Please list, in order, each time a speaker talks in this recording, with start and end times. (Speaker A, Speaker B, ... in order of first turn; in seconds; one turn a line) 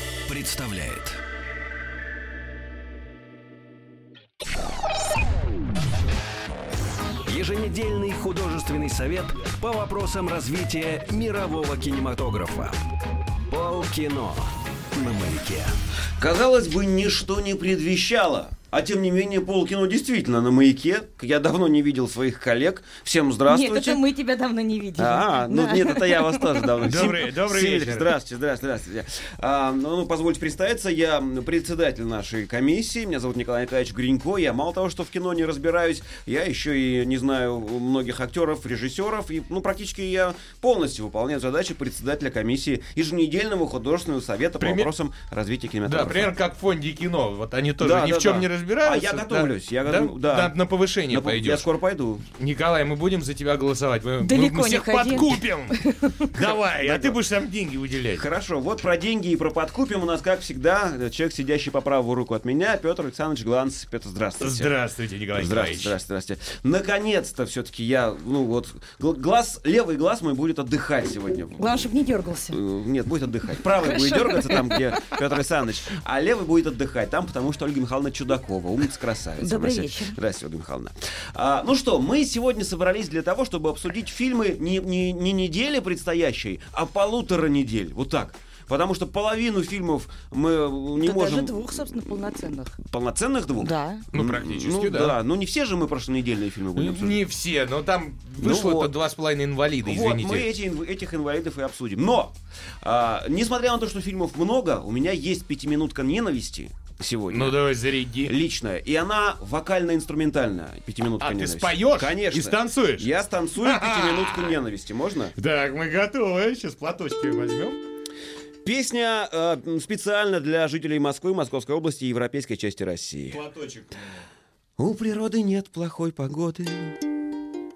Speaker A: 0.3-1.2
Speaker A: 7.3-12.8
Speaker A: 13.5-15.8
Speaker B: 16.2-24.0
Speaker C: 23.5-26.7
Speaker B: 25.0-46.3
Speaker D: 26.8-28.1
Speaker D: 44.6-44.9
Speaker D: 45.9-51.7
Speaker B: 47.8-50.5
Speaker B: 51.1-52.2
Speaker D: 52.4-58.2
Speaker C: 54.2-56.2
Speaker B: 56.4-57.2
Speaker B: 58.1-64.7
Speaker D: 64.4-66.0
Speaker B: 65.3-71.9
Speaker C: 71.6-72.6
Speaker B: 72.5-92.2
Speaker C: 73.6-75.2
Speaker C: 79.4-80.2
Speaker C: 91.0-92.8
Speaker B: 92.8-97.2
Speaker C: 93.6-94.0
Speaker D: 94.1-95.2
Speaker D: 96.8-100.5
Speaker B: 98.4-99.0
Speaker B: 99.8-107.6
Speaker D: 107.3-108.4
Speaker B: 108.2-115.3
Speaker D: 111.2-114.6
Speaker D: 115.4-117.8
Speaker B: 118.6-123.4
Speaker D: 123.3-124.2
Speaker B: 124.8-127.0